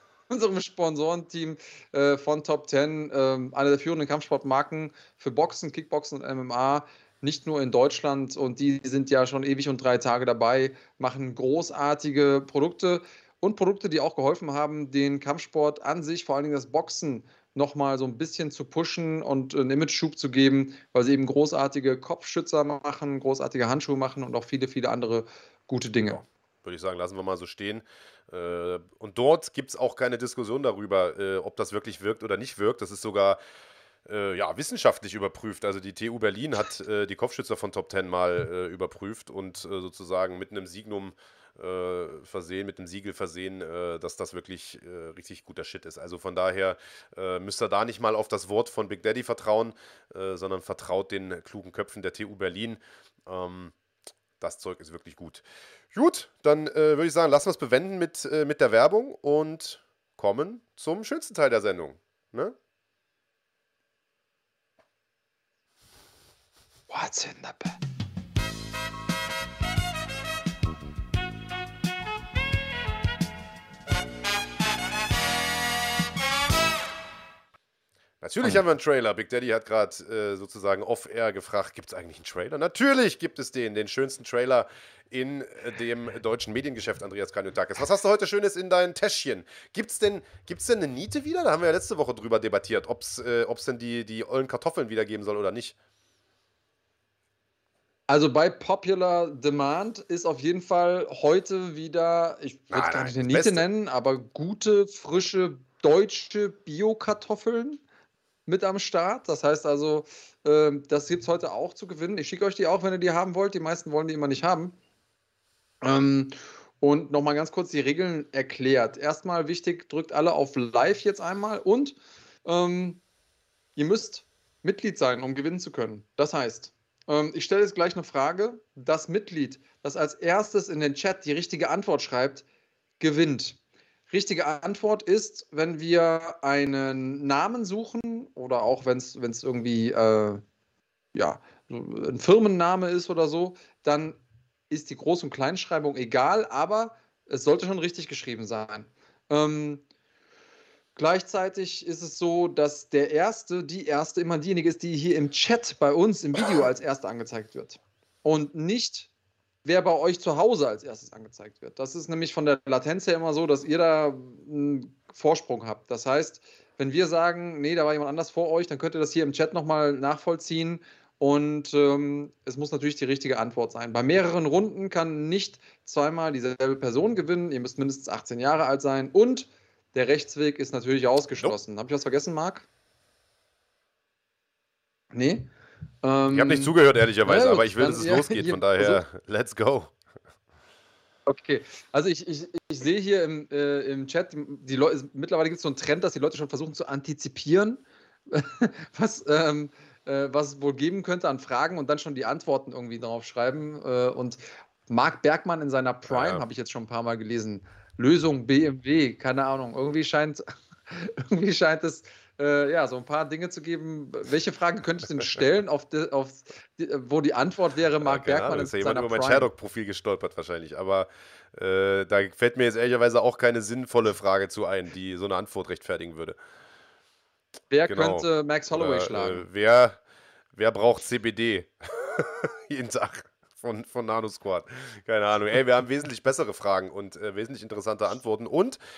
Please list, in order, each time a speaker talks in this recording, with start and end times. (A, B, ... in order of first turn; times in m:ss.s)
0:00.3-0:26.2 A
0:26.6-0:33.4 B
0:34.0-0:53.7 B
0:54.4-1:02.5 B
1:06.9-1:07.7 A
1:18.2-1:35.7 B
1:38.1-1:47.8 A
1:42.7-1:43.6 B
1:48.4-1:54.8 A
1:55.8-2:03.0 A
2:03.8-2:12.4 A
2:13.0-2:13.6 A
2:14.1-2:20.4 A
2:21.1-2:24.2 A
2:24.7-2:29.8 A
2:31.0-2:39.1 A
2:39.6-3:02.7 A
3:05.1-3:05.5 A
3:06.0-3:09.0 A
3:06.3-3:09.9 B
3:11.3-3:39.5 A
3:26.1-3:26.4 B
3:38.0-3:46.4 B
3:47.7-3:49.4 A
3:47.9-3:50.0 B
3:50.5-3:58.8 B